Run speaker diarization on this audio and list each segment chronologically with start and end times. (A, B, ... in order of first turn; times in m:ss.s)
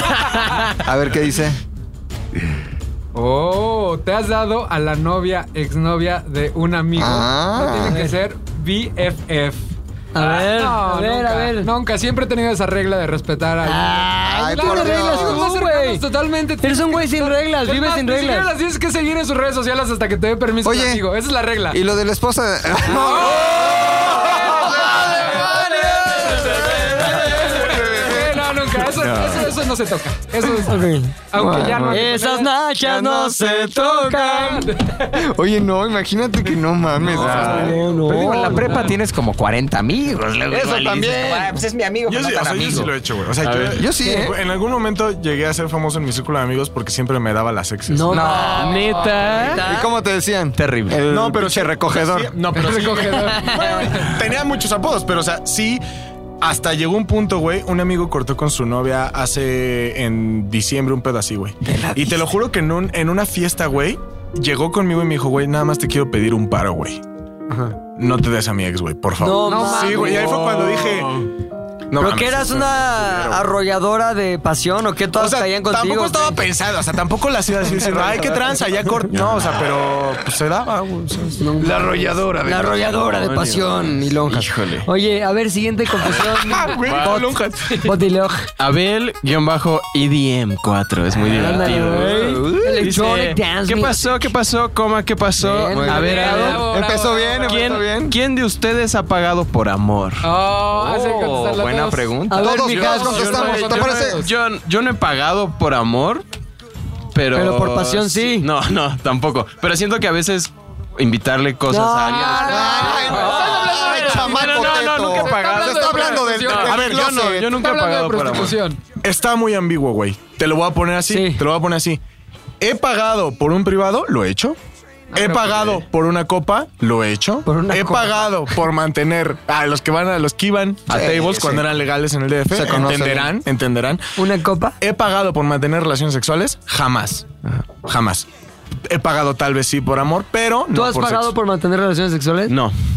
0:00.7-0:01.6 A
0:03.1-0:21.8 B
0:06.9-0:08.0 A
0:10.1-0:11.7 C
0:13.6-0:16.0 C
0:14.2-0:15.4 A
0:16.6-0:18.5 C
0:20.6-0:21.0 A
0:21.7-0:25.8 A
0:22.9-0:32.6 B
0:24.6-0:26.0 C
0:26.3-0:28.4 A
0:28.9-0:29.5 D
0:30.5-0:31.2 C
0:31.3-0:32.2 A
0:31.9-0:34.7 C
0:32.8-0:34.5 A
0:33.9-0:35.1 B
0:35.1-0:37.8 A
0:37.1-0:37.8 D
0:37.2-0:37.8 E
0:37.2-0:38.9 C
0:38.0-0:42.9 F
0:38.6-0:38.9 B
0:40.5-0:41.6 A
0:42.0-0:48.3 E
0:43.4-0:43.8 D
0:43.8-0:44.4 A
0:47.9-0:48.8 C
0:48.1-0:48.9 F
0:48.3-0:49.3 B
0:48.4-0:49.6 D
0:49.3-0:49.9 C
0:49.6-0:52.3 A
0:50.6-0:51.0 F
0:51.0-0:55.8 E
0:52.5-0:54.2 B
0:53.2-0:53.9 C
0:56.4-1:07.0 E
1:01.6-1:02.2 C
1:07.5-1:07.8 C
1:08.0-1:11.3 E
1:09.2-1:10.8 C
1:11.9-1:13.4 E
1:11.9-1:16.4 C
1:15.1-1:23.0 E
1:21.4-1:26.7 C
1:21.7-1:24.9 D
1:26.1-1:27.9 E
1:26.7-1:27.4 D
1:27.8-1:28.5 C
1:28.6-1:36.6 D
1:31.3-1:34.3 C
1:35.4-1:36.6 C
1:35.7-1:38.1 A
1:35.9-1:37.8 B
1:37.4-1:40.2 D
1:40.2-1:44.3 B
1:40.7-1:42.6 F
1:42.3-1:43.7 C
1:42.4-1:44.2 A
1:43.5-1:46.2 D
1:47.1-1:58.6 D
1:47.3-1:48.5 C
1:51.7-1:52.6 C
1:52.1-1:58.8 B
1:52.4-1:57.6 A
1:56.5-1:57.0 E
1:59.0-2:02.0 E
2:01.1-2:01.4 C
2:02.6-2:04.6 E
2:05.1-2:05.7 B
2:05.1-2:14.0 E
2:07.4-2:08.5 C
2:10.9-2:11.6 F
2:12.5-2:13.4 A
2:14.2-2:14.8 C
2:14.8-2:17.3 E
2:17.8-2:18.2 E
2:18.9-2:21.3 E
2:20.7-2:22.5 C
2:22.5-2:22.7 D